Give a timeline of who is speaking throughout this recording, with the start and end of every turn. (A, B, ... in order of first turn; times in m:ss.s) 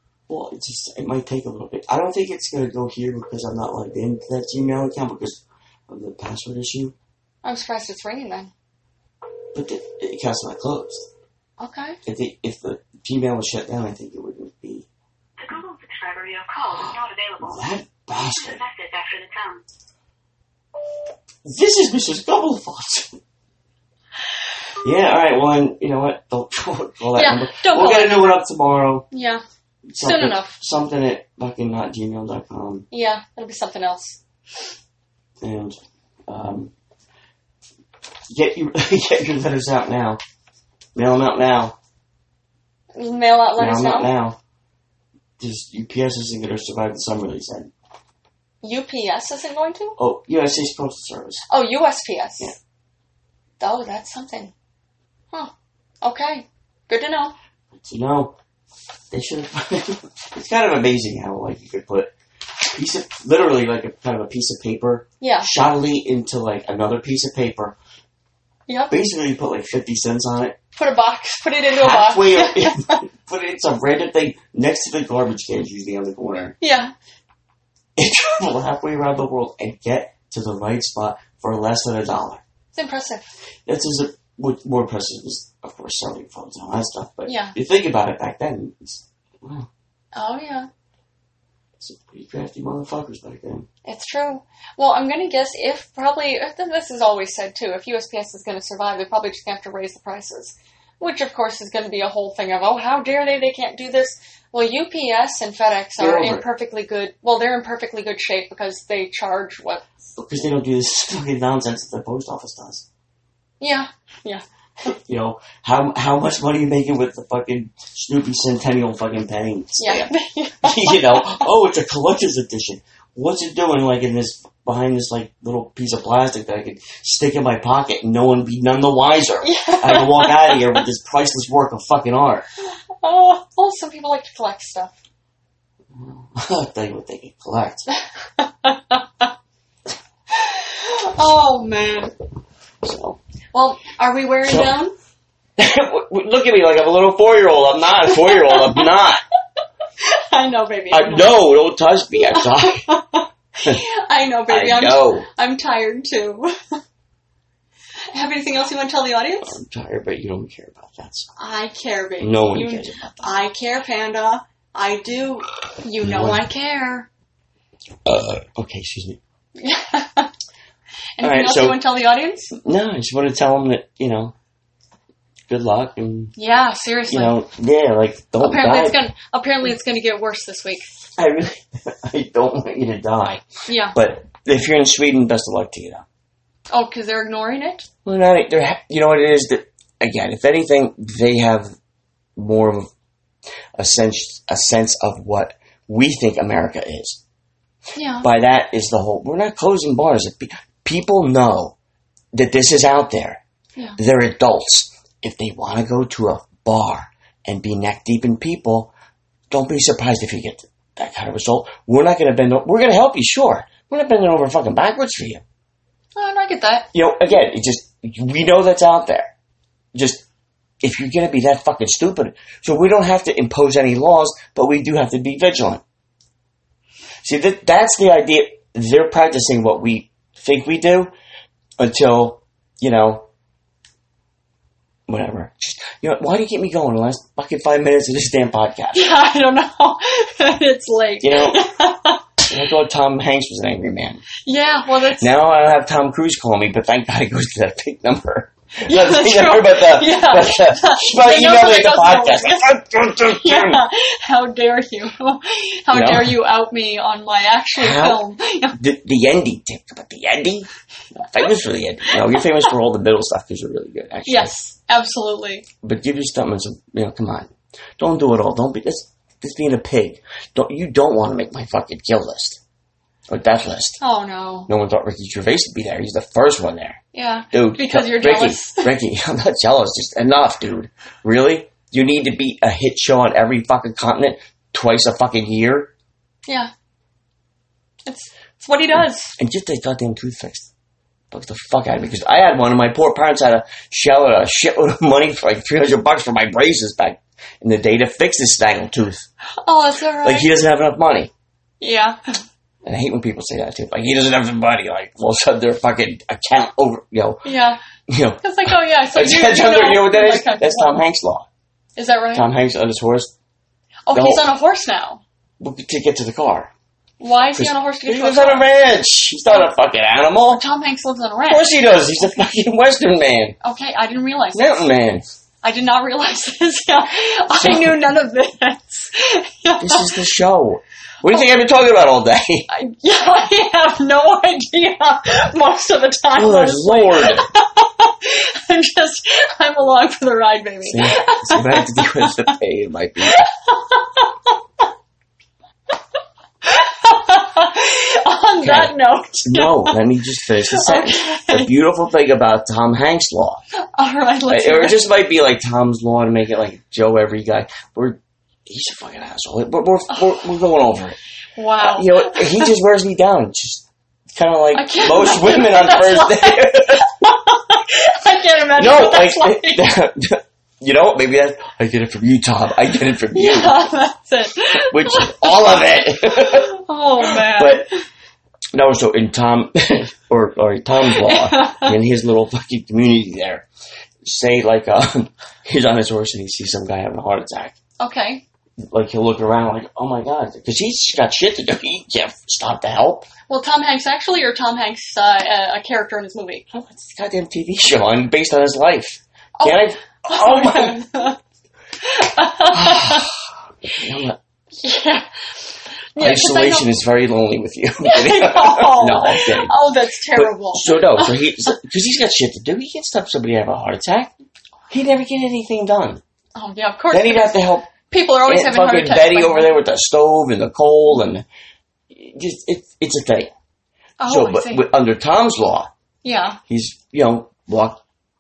0:00.3-0:07.0 A
0:07.4-0:08.5 B
0:09.5-0:11.1 A
0:11.6-0:12.0 B
0:12.0-0:14.9 A
0:15.4-0:19.6 C
0:16.8-0:18.6 A
0:21.4-0:23.2 A
0:24.8-0:29.1 A
0:27.1-0:28.4 B
0:29.1-0:29.4 B
0:29.9-0:32.9 A
0:30.0-0:30.6 B
0:32.9-0:34.2 B
0:35.4-0:36.7 A
0:38.3-0:40.2 A
0:41.0-0:41.8 A
0:43.0-0:44.1 B
0:43.6-0:44.4 A
0:45.4-0:47.7 A
0:48.6-0:50.0 B
0:50.0-0:51.4 A
0:51.5-0:52.5 B
0:53.6-0:54.5 B
0:55.3-0:57.3 B
0:57.7-0:58.3 A
0:59.1-1:07.8 A
1:05.2-1:05.5 B
1:08.7-1:09.0 B
1:08.9-1:10.6 A
1:10.8-1:13.0 B
1:11.7-1:16.6 A
1:16.6-1:16.9 B
1:18.0-1:22.4 A
1:22.7-1:23.3 B
1:23.7-1:29.7 A
1:27.3-1:27.6 B
1:30.2-1:30.7 B
1:31.8-1:33.7 A
1:33.8-1:49.9 B
1:46.0-1:46.4 A
1:50.2-1:52.8 A
1:53.6-1:54.9 B
1:54.8-2:12.5 A
1:59.8-2:01.4 B
2:09.4-2:10.8 B
2:13.0-2:15.0 B
2:15.9-2:17.9 A
2:18.4-2:19.3 B
2:20.3-2:22.1 B
2:22.8-2:23.2 A
2:23.5-2:24.9 B
2:24.4-2:24.7 A
2:25.6-2:29.2 A
2:28.1-2:28.9 B
2:30.0-2:31.4 B
2:30.9-2:32.9 A
2:32.3-2:36.8 B
2:34.5-2:35.3 A
2:38.1-2:39.6 B
2:39.4-2:41.3 A
2:41.4-2:47.1 B
2:42.2-2:43.4 A
2:46.0-2:46.4 A
2:48.0-2:49.2 A
2:49.6-2:50.3 B
2:51.2-2:52.5 B
2:51.2-2:51.8 A
2:52.6-2:54.3 A
2:55.5-2:56.4 A
2:56.4-2:57.4 B
2:57.1-2:59.0 A
2:58.4-3:00.9 B
3:01.2-3:06.0 A
3:03.7-3:04.0 B
3:06.7-3:07.9 B
3:08.0-3:11.8 A
3:12.4-3:12.9 A
3:13.8-3:17.2 A
3:18.0-3:18.3 B
3:18.2-3:21.8 A
3:22.3-3:23.4 A
3:24.0-3:28.9 A
3:29.5-3:35.4 A
3:36.2-3:36.9 B
3:36.9-3:39.3 A
3:39.9-3:40.2 A
3:40.8-3:45.8 A
3:47.2-3:51.1 A
3:51.8-3:53.3 A
3:55.1-3:59.1 A
3:58.9-4:02.3 B
4:01.2-4:01.6 A
4:02.5-4:04.2 A
4:04.4-4:05.3 B
4:05.2-4:13.8 A
4:08.8-4:12.7 B
4:13.4-4:18.8 B
4:15.9-4:16.4 A
4:17.8-4:18.2 A
4:18.8-4:20.7 A
4:21.3-4:24.5 A
4:24.3-4:25.6 B
4:25.8-4:32.6 A
4:33.3-4:34.0 A
4:34.0-4:34.7 B
4:34.7-4:37.0 A
4:37.1-4:38.9 B
4:37.5-4:45.9 A
4:48.1-4:49.3 B
4:49.4-4:50.7 A
4:51.3-4:59.3 A
4:59.6-5:00.5 B
5:00.2-5:01.3 A
5:01.8-5:02.2 B
5:02.8-5:07.4 A
5:07.4-5:07.8 B
5:08.1-5:11.5 A
5:08.4-5:10.9 B
5:12.0-5:12.5 B
5:12.3-5:13.3 A
5:14.1-5:15.2 B
5:14.1-5:14.4 A
5:15.6-5:16.7 A
5:17.2-5:18.7 B
5:17.5-5:20.6 A
5:20.5-5:21.8 B
5:21.5-5:23.6 A
5:23.6-5:24.9 B
5:24.5-5:25.2 A
5:25.6-5:30.1 B
5:27.5-5:28.0 A
5:29.8-5:32.7 A
5:32.7-5:42.5 B
5:36.4-5:37.5 A
5:40.8-5:43.4 A
5:43.2-5:44.5 B
5:46.6-5:50.0 B
5:48.6-5:53.6 A
5:50.7-5:51.7 B
5:54.0-5:55.0 B
5:54.5-6:01.2 A
6:01.6-6:02.8 B
6:01.8-6:07.1 A
6:04.7-6:09.9 B
6:08.8-6:13.8 A
6:13.3-6:18.0 B
6:14.9-6:17.9 A
6:18.7-6:23.7 A
6:21.0-6:21.9 B
6:24.2-6:27.8 A
6:28.0-6:28.4 B
6:28.9-6:33.3 A
6:33.5-6:36.7 B
6:36.7-6:41.0 A
6:39.6-6:41.4 B
6:42.0-6:43.3 B
6:42.7-6:44.4 A
6:44.8-6:46.9 B
6:46.2-6:49.7 A
6:48.0-6:51.4 B
6:50.3-6:54.3 A
6:54.9-6:56.2 A
6:56.6-6:59.8 B
6:57.1-6:57.9 A
6:58.4-7:01.5 A
7:02.1-7:03.5 A
7:04.2-7:04.9 B
7:04.3-7:05.9 A
7:06.2-7:06.6 B
7:06.7-7:08.0 A